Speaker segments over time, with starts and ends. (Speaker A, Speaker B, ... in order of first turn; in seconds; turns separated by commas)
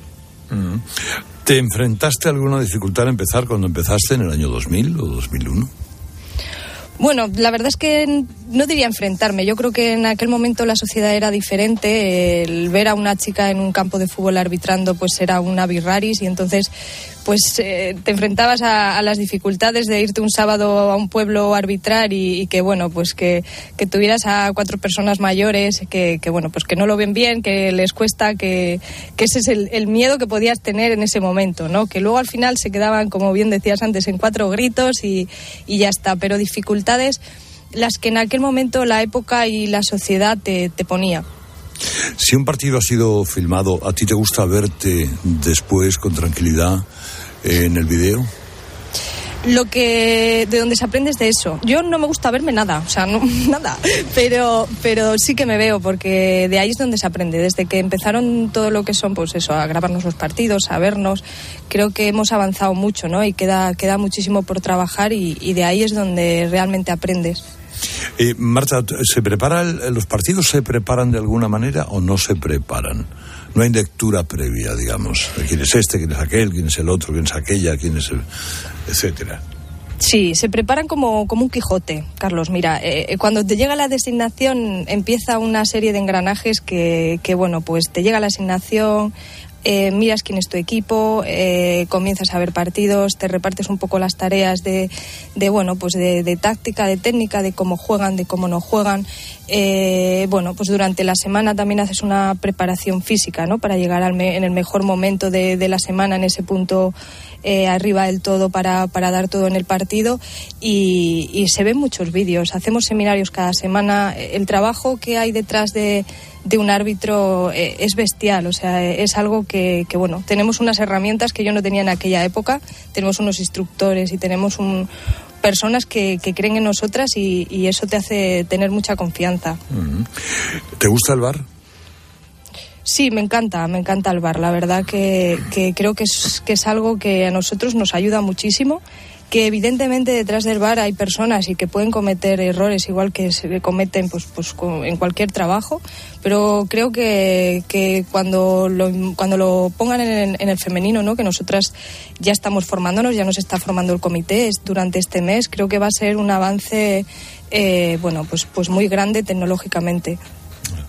Speaker A: 0.5-5.7, Speaker B: 7.0-16.7, Speaker B: 17.2-37.2, Speaker B: 37.8-41.2, Speaker A: 42.2-46.8, Speaker A: 47.4-48.3, Speaker B: 49.5-67.4, Speaker A: 68.2-78.2, Speaker A: 78.9-79.4, Speaker B: 80.0-89.1, Speaker B: 89.7-106.9, Speaker B: 107.4-124.9, Speaker B: 125.4-129.6, Speaker A: 129.7-131.4, Speaker B: 132.9-160.2